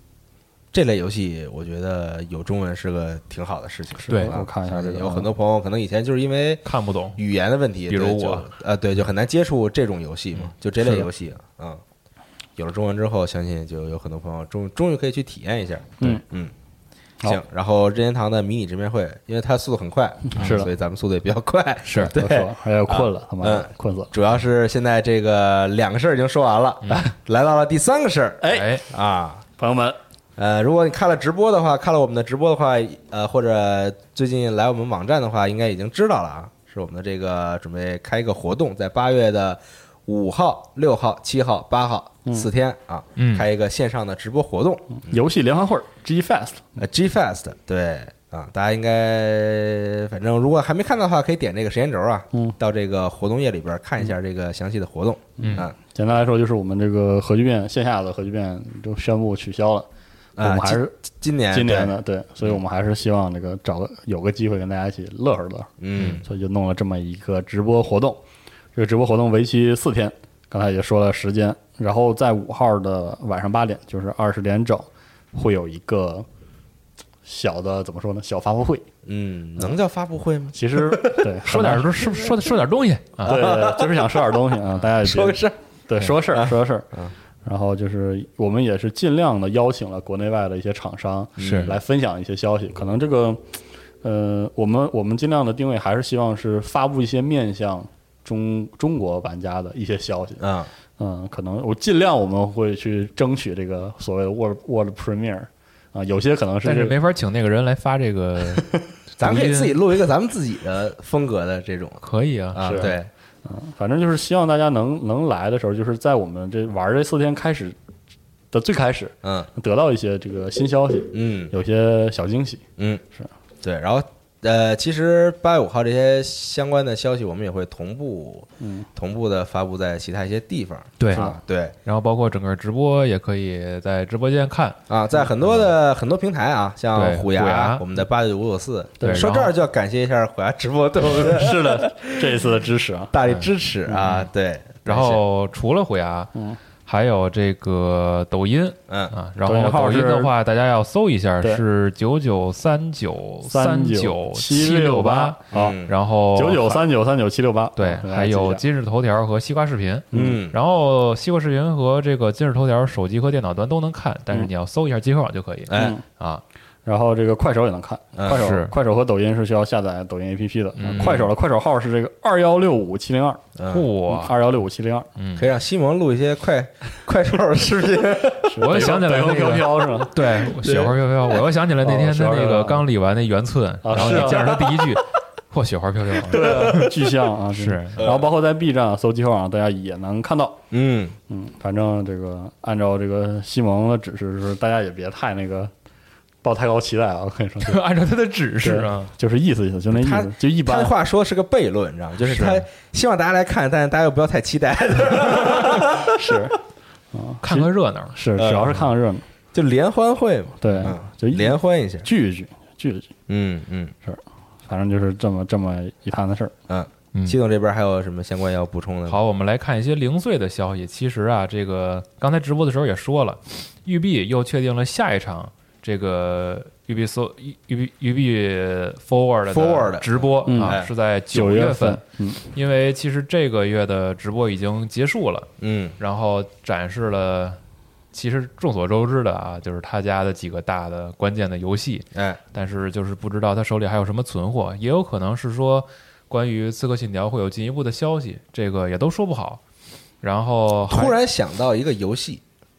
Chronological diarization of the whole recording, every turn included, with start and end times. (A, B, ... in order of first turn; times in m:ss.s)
0:00.7-0:11.8 A
0:04.0-0:05.3 B
0:04.1-0:04.4 C
0:06.6-0:07.2 C
0:07.9-0:08.5 C
0:12.6-0:16.5 A
0:17.2-0:29.4 A
0:20.3-0:20.7 B
0:21.9-0:22.1 C
0:22.0-0:24.1 B
0:28.4-0:28.8 B
0:28.5-0:28.8 C
0:29.6-0:30.0 B
0:30.4-0:45.0 A
0:43.2-0:43.5 C
0:45.0-0:46.8 B
0:46.8-0:55.8 A
0:52.3-0:52.6 B
0:55.4-1:00.9 B
0:55.4-0:55.7 C
1:00.4-1:02.6 A
1:01.5-1:05.7 B
1:05.8-1:06.2 A
1:06.2-1:08.2 B
1:08.8-1:16.3 B
1:17.2-1:18.9 B
1:19.0-1:21.3 A
1:20.5-1:21.9 B
1:21.4-1:23.4 C
1:22.0-1:22.6 A
1:23.2-1:26.9 B
1:23.3-1:24.4 A
1:24.9-1:27.1 A
1:27.4-1:40.4 B
1:31.4-1:31.8 A
1:31.4-1:31.7 C
1:40.4-1:40.7 A
1:41.0-1:47.0 B
1:46.6-1:49.8 C
1:49.2-1:53.1 A
1:52.0-1:52.9 C
1:52.6-1:52.9 B
1:53.4-1:57.8 B
1:58.5-2:03.3 B
2:01.1-2:01.5 A
2:02.8-2:03.0 A
2:03.6-2:11.8 A
2:08.6-2:08.9 B
2:11.0-2:11.3 C
2:11.8-2:14.8 C
2:14.9-2:22.3 A
2:15.4-2:15.7 C
2:16.9-2:17.9 C
2:19.0-2:19.3 B
2:19.0-2:19.5 C
2:21.0-2:23.1 B
2:23.1-2:25.2 A
2:23.3-2:24.3 C
2:24.8-2:26.3 C
2:26.8-2:36.8 C
2:28.9-2:29.2 A
2:29.4-2:30.3 B
2:33.5-2:35.8 B
2:35.5-2:35.9 A
2:36.3-2:38.6 B
2:37.8-2:46.4 C
2:40.1-2:40.4 B
2:40.1-2:40.6 A
2:45.7-2:46.0 A
2:45.7-2:46.0 B
2:46.9-2:53.4 B
2:48.2-2:48.4 A
2:48.3-2:48.7 C
2:50.8-2:51.3 C
2:53.6-2:53.9 A
2:53.7-2:54.3 C
2:54.1-2:55.1 B
2:55.2-2:55.5 C
2:55.4-2:58.6 A
2:58.4-3:00.9 B
2:58.6-3:06.9 C
3:01.8-3:02.8 B
3:03.8-3:04.9 B
3:04.0-3:04.5 A
3:06.2-3:10.6 B
3:06.4-3:06.9 A
3:07.5-3:08.0 C
3:08.0-3:08.3 A
3:10.7-3:11.2 A
3:11.3-3:15.7 B
3:16.4-3:17.8 B
3:17.6-3:19.1 C
3:18.6-3:20.9 B
3:19.9-3:26.4 A
3:22.3-3:22.6 C
3:26.1-3:26.6 B
3:27.1-3:29.2 B
3:27.4-3:28.2 C
3:28.4-3:28.8 A
3:29.5-3:32.1 A
3:30.6-3:33.1 B
3:33.3-3:33.9 A
3:34.0-3:36.5 B
3:36.7-3:39.2 A
3:39.1-3:57.6 C
3:49.5-3:50.9 A
3:50.5-3:50.8 B
3:51.3-3:52.4 B
3:55.6-3:56.0 A
3:58.1-4:09.6 C
4:02.2-4:02.4 A
4:10.2-4:11.2 C
4:10.9-4:12.4 A